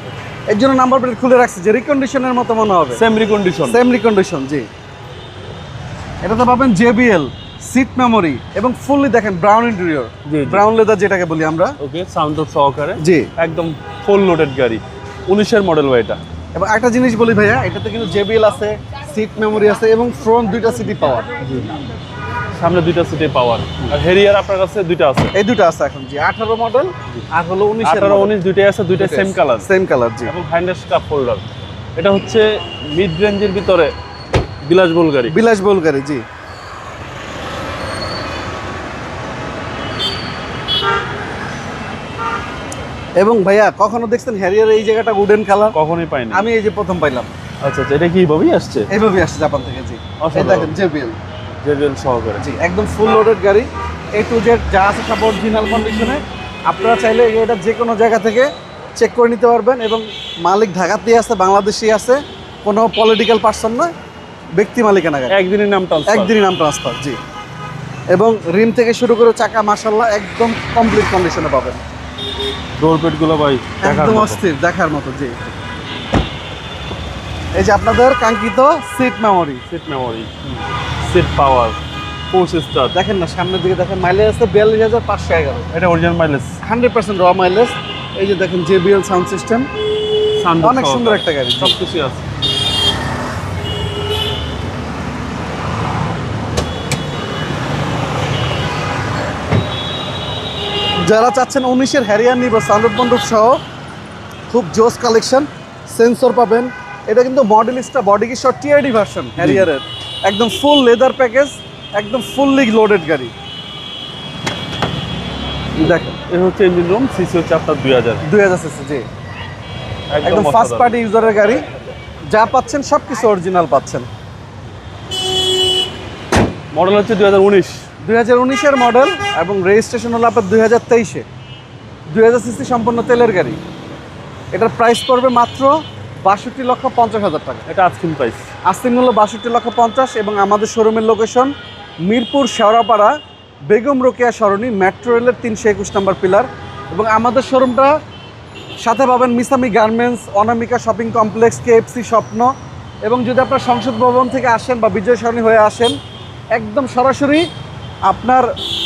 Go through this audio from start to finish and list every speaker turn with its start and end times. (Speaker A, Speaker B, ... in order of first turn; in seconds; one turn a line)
Speaker A: 0.5-3.0
Speaker B: 3.0-3.8
Speaker A: 3.7-4.7
Speaker A: 6.2-11.8
Speaker B: 10.3-10.6
Speaker B: 11.8-16.2
Speaker A: 13.0-13.3
Speaker A: 16.6-21.3
Speaker B: 21.4-21.7
Speaker B: 22.6-25.3
Speaker A: 25.3-28.3
Speaker B: 27.8-29.7
Speaker A: 29.0-30.3
Speaker B: 30.3-31.5
Speaker B: 32.0-33.9
Speaker B: 34.6-35.3
Speaker A: 35.3-36.2
Speaker A: 43.2-45.8
Speaker B: 45.7-46.5
Speaker A: 46.3-47.3
Speaker B: 47.6-48.9
Speaker A: 48.9-51.2
Speaker B: 50.2-50.7
Speaker B: 51.6-52.4
Speaker A: 52.4-63.9
Speaker A: 64.6-65.4
Speaker B: 65.3-66.3
Speaker A: 66.1-67.2
Speaker A: 68.1-71.8
Speaker B: 72.8-74.4
Speaker A: 73.8-75.5
Speaker A: 77.5-79.6
Speaker B: 79.7-81.8
Speaker B: 82.3-83.0
Speaker A: 82.9-85.7
Speaker B: 85.7-86.5
Speaker A: 86.6-89.7
Speaker B: 90.4-92.2
Speaker A: 90.6-91.8
Speaker A: 101.0-103.6
Speaker A: 104.5-113.3
Speaker B: 109.4-109.7
Speaker A: 115.8-116.2
Speaker B: 116.2-118.2
Speaker A: 118.2-119.0
Speaker B: 120.1-121.0
Speaker A: 120.2-121.7
Speaker A: 122.3-124.1
Speaker B: 126.7-127.8
Speaker A: 128.0-131.2
Speaker A: 132.1-133.6
Speaker A: 134.5-137.7
Speaker B: 137.7-138.5
Speaker A: 138.7-141.5
Speaker A: 142.1-143.1
Speaker A: 143.7-147.9
Speaker A: 148.8-152.5
Speaker A: 153.0-155.9
Speaker A: 156.5-157.5
Speaker A: 158.1-158.5